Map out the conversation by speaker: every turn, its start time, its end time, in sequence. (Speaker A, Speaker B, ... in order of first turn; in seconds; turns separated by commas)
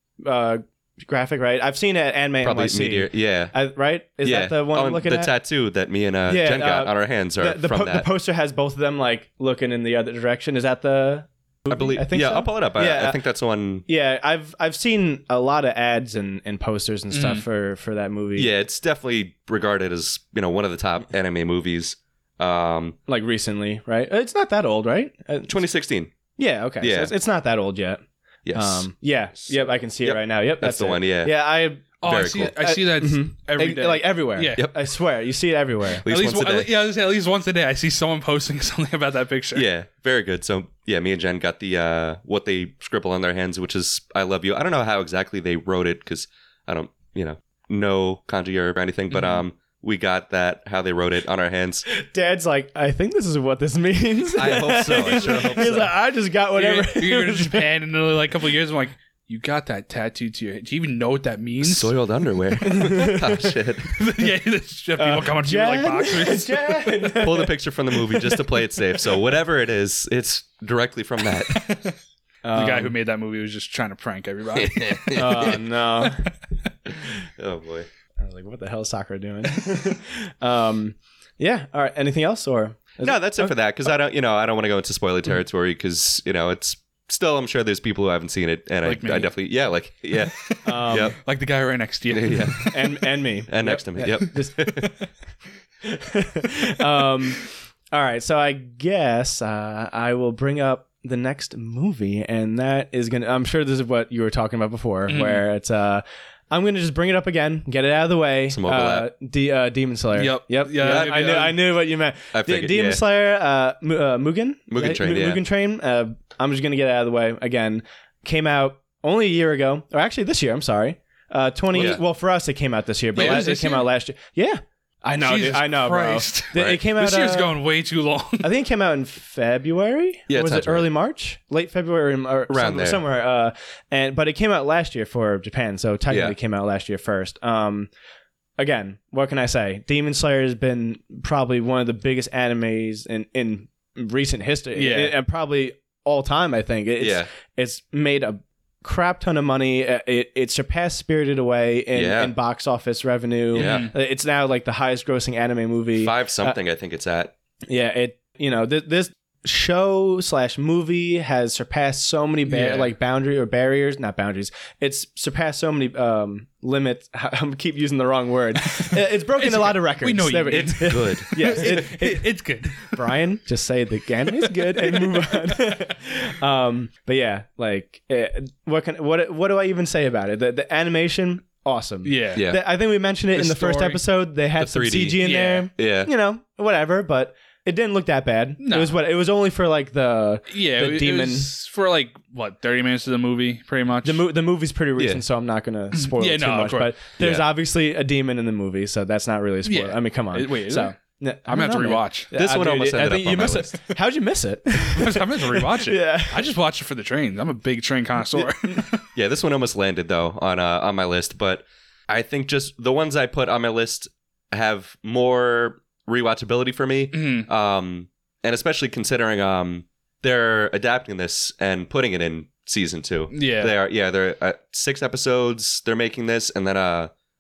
Speaker A: 0.2-5.3, Speaker B: 2.4-3.5, Speaker B: 4.2-8.1, Speaker A: 6.3-13.2, Speaker B: 11.7-13.8, Speaker A: 13.9-18.5, Speaker C: 17.1-17.4, Speaker B: 18.4-23.0, Speaker A: 23.1-25.6, Speaker B: 25.5-26.1, Speaker A: 26.4-28.0, Speaker B: 26.8-27.1, Speaker B: 28.5-28.9, Speaker A: 28.5-36.0, Speaker B: 29.4-31.3, Speaker C: 32.0-34.6, Speaker B: 32.0-32.5, Speaker B: 36.0-36.7, Speaker C: 36.1-39.7, Speaker B: 39.5-51.9, Speaker C: 49.1-49.4, Speaker A: 51.9-57.7, Speaker B: 54.4-55.9, Speaker C: 55.2-55.5, Speaker C: 56.5-61.9, Speaker B: 61.6-63.9, Speaker A: 62.6-63.5, Speaker C: 63.9-67.1, Speaker A: 65.0-67.5, Speaker B: 67.2-71.6, Speaker C: 71.5-72.0, Speaker A: 72.5-73.0, Speaker C: 72.5-76.3, Speaker B: 74.5-75.6, Speaker A: 75.1-76.3, Speaker B: 76.9-77.9, Speaker A: 78.2-83.5, Speaker B: 83.0-91.2, Speaker C: 88.8-89.3, Speaker C: 90.2-92.9, Speaker A: 90.7-91.2, Speaker B: 92.1-92.6, Speaker A: 92.6-94.8, Speaker B: 93.5-94.9, Speaker A: 95.8-127.5, Speaker C: 105.1-105.5, Speaker B: 108.5-109.1, Speaker C: 110.1-111.6, Speaker B: 110.8-111.4, Speaker B: 112.3-113.0, Speaker B: 114.7-115.4, Speaker B: 121.7-122.0, Speaker C: 123.2-123.9, Speaker B: 123.2-123.5, Speaker C: 125.2-128.5, Speaker A: 128.4-137.9, Speaker B: 130.3-130.9, Speaker B: 132.5-133.0, Speaker B: 136.1-136.3, Speaker A: 138.6-156.6, Speaker C: 144.8-145.1, Speaker B: 147.0-147.3, Speaker B: 151.9-152.3, Speaker B: 153.6-153.9, Speaker C: 153.6-153.9, Speaker B: 156.0-157.3, Speaker A: 157.7-191.5, Speaker C: 162.5-162.9, Speaker C: 168.7-173.2, Speaker B: 170.5-171.8, Speaker C: 174.4-175.6, Speaker C: 182.0-182.4, Speaker C: 183.3-184.0, Speaker B: 184.6-185.2, Speaker C: 185.2-185.7, Speaker B: 185.8-186.1, Speaker C: 188.6-188.9, Speaker C: 190.5-194.2, Speaker A: 194.0-206.5, Speaker B: 195.0-195.2, Speaker C: 195.9-196.9, Speaker B: 197.2-197.5, Speaker C: 199.7-200.9, Speaker C: 201.5-202.3, Speaker B: 202.3-203.7, Speaker C: 204.9-209.1, Speaker A: 208.3-208.8, Speaker B: 209.2-227.1, Speaker C: 217.1-217.5, Speaker C: 223.3-223.7